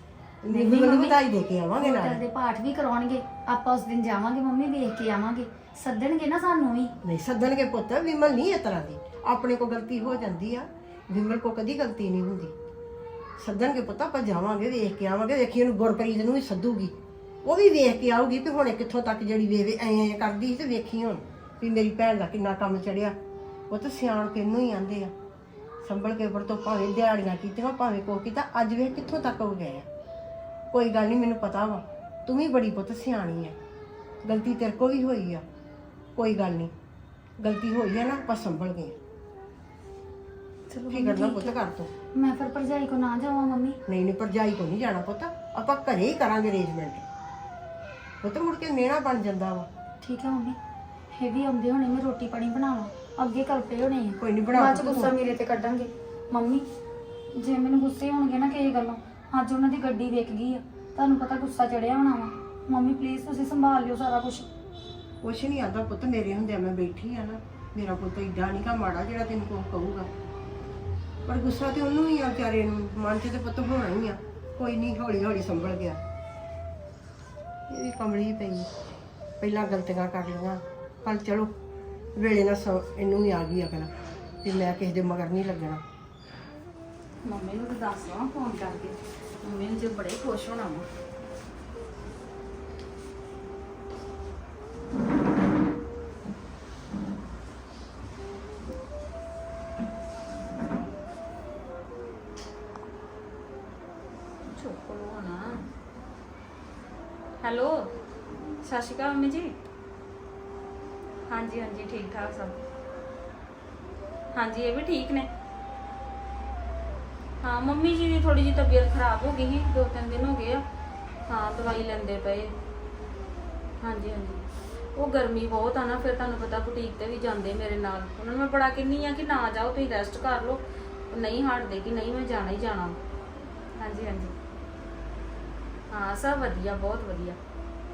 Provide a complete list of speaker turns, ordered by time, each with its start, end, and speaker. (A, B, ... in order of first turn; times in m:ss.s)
0:00.4-0:02.2 A
0:00.5-0:01.2 B
0:01.8-0:06.9 B
0:07.0-0:12.5 A
0:13.4-0:23.1 A
0:23.7-0:25.1 A
0:25.8-0:29.9 A
0:30.7-0:33.6 A
0:34.2-0:35.4 A
0:36.2-0:36.7 A
0:37.4-0:39.0 A
0:40.7-0:41.5 B
0:40.9-0:41.9 A
0:42.2-0:43.8 B
0:43.9-0:47.0 A
0:48.2-0:49.7 A
0:50.0-0:50.6 B
0:51.1-0:56.7 B
0:54.2-0:55.1 A
0:57.4-1:04.5 B
1:05.2-1:10.1 A
1:11.2-1:16.0 A
1:17.7-1:18.7 A
1:19.4-1:21.5 A
1:22.2-1:23.9 A
1:24.4-1:25.8 A
1:27.2-1:30.8 C
1:44.4-1:45.6 C
1:47.4-1:47.9 C
1:48.6-1:49.5 C
1:51.3-1:52.6 C
1:54.3-1:55.3 C
1:57.4-2:00.6 C
2:01.3-2:02.5 C
2:03.8-2:04.4 C
2:05.0-2:13.0 C
2:13.8-2:14.3 C
2:15.9-2:17.4 C